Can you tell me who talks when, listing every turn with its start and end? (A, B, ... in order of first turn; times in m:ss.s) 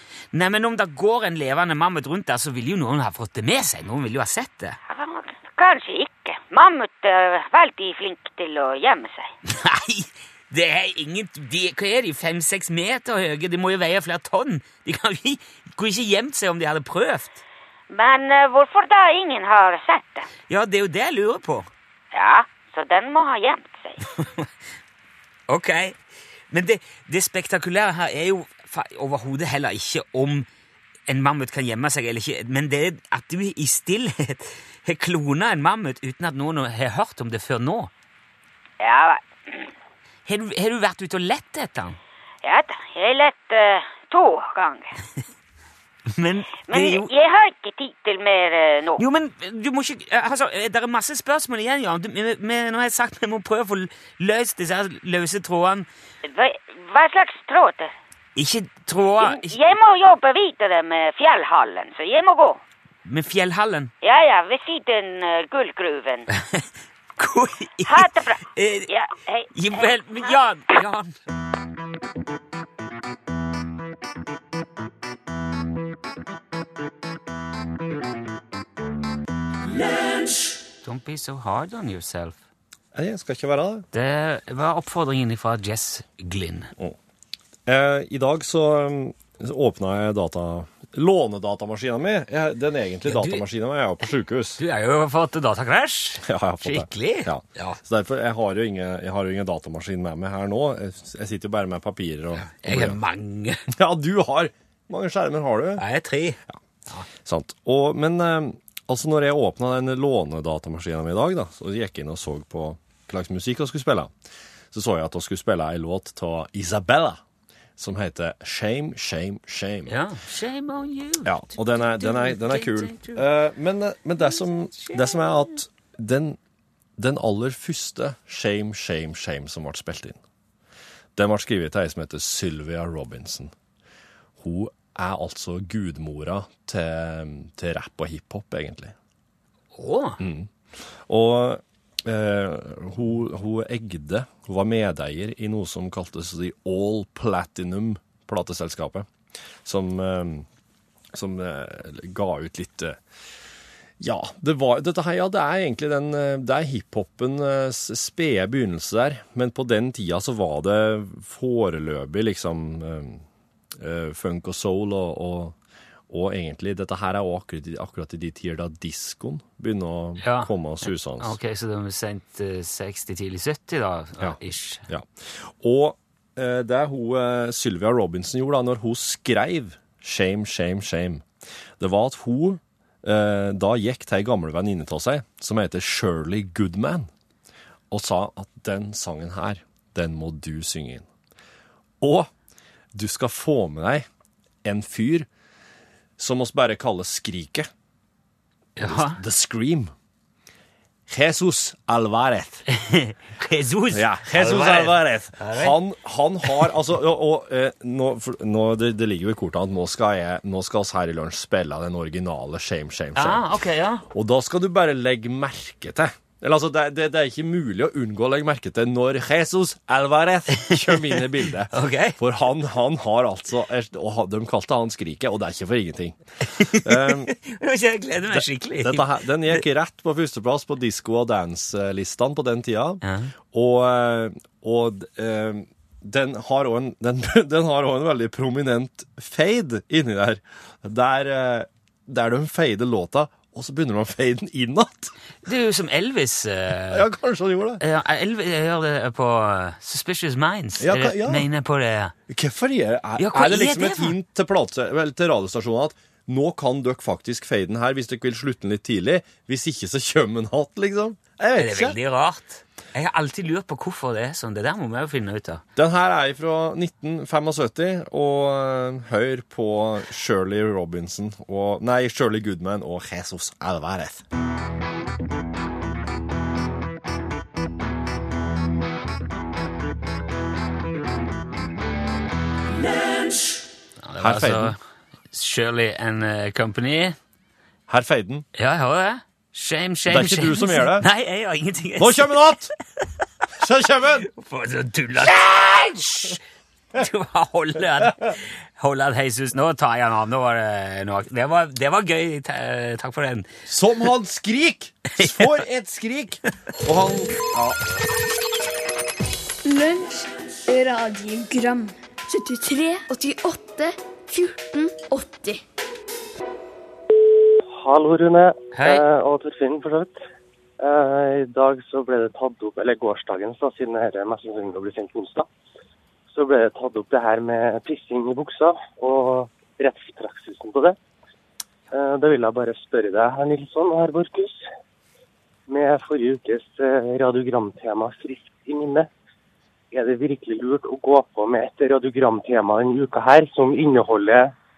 0:00.3-0:04.8 A
0:04.9-0:09.3 B
0:09.4-0:17.4 A
0:17.9-0:20.3 B
0:20.5-0:21.7 A
0:22.1-0:24.0 B
0:24.1-0:24.5 A
0:25.5-0:26.0 A
0:26.5-0:30.5 A
0:31.1-0:37.9 A
0:38.8-0:39.7 B
0:40.2-0:42.0 A
0:42.4-0:44.9 B
0:46.1-0:47.1 A
0:46.7-0:49.0 B
0:49.0-0:55.9 A
0:56.2-0:57.9 B
0:58.4-0:59.6 A
0:59.2-1:02.6 B
1:03.0-1:03.9 A
1:04.0-1:06.3 B
1:07.2-1:08.9 A
1:07.9-1:10.3 B
1:09.5-1:11.1 A
1:20.8-1:22.4 A
1:22.9-1:23.9 C
1:23.9-1:26.7 A
1:27.6-1:34.6 C
1:33.0-1:33.4 A
1:34.6-1:37.8 A
1:36.2-1:43.0 C
1:42.4-1:43.6 A
1:43.7-1:45.8 C
1:45.8-1:47.1 A
1:47.1-1:54.1 C
1:54.7-1:57.2 C
1:57.8-2:00.0 C
1:59.9-2:03.2 A
2:01.2-2:06.4 C
2:04.2-2:05.5 A
2:07.0-2:10.2 C
2:11.2-2:13.5 C
2:14.4-2:18.9 C
2:19.7-2:20.2 A
2:20.2-2:20.5 C
2:21.1-2:29.1 C
2:29.6-2:30.4 C
2:31.1-2:33.0 C
2:34.0-2:43.2 C
2:43.8-2:45.6 C
2:46.1-2:51.4 C
2:50.2-2:54.9 A
2:54.2-3:01.2 C
3:01.8-3:07.1 C
3:07.9-3:11.1 C
3:12.0-3:12.3 C
3:12.9-3:14.0 C
3:14.6-3:15.3 C
3:16.2-3:17.7 C
3:18.8-3:19.2 A
3:18.8-3:19.9 C
3:21.1-3:22.6 C
3:22.7-3:25.8 A
3:23.9-3:33.4 C
3:33.2-3:34.0 A
3:34.1-3:46.2 C
3:40.6-3:41.2 A
3:41.7-3:42.2 A
3:46.5-3:49.6 A
3:46.7-3:47.3 C
3:48.3-4:05.1 C
3:53.0-3:53.3 A
4:05.4-4:07.0 A
4:06.9-4:07.8 C
4:07.8-4:12.1 A
4:10.8-4:11.5 C
4:12.3-4:22.0 C
4:13.2-4:14.2 A
4:21.6-4:25.6 A
4:25.8-4:34.2 C
4:44.0-4:44.8 A
4:44.2-4:44.7 C
4:45.3-4:47.2 A
4:47.9-4:48.4 C
4:48.5-4:52.5 A
4:50.1-4:51.1 C
4:52.0-4:52.7 C
4:53.6-4:54.3 C
4:54.2-4:56.4 A
4:56.9-5:03.5 A
5:03.7-5:07.8 C
5:05.2-5:05.5 A
5:09.6-5:15.6 D
5:17.7-5:20.2 E
5:18.7-5:19.0 A
5:20.8-5:25.5 E
5:26.3-5:31.0 E
5:31.9-5:34.6 E
5:35.7-5:39.1 E
5:39.9-5:44.5 E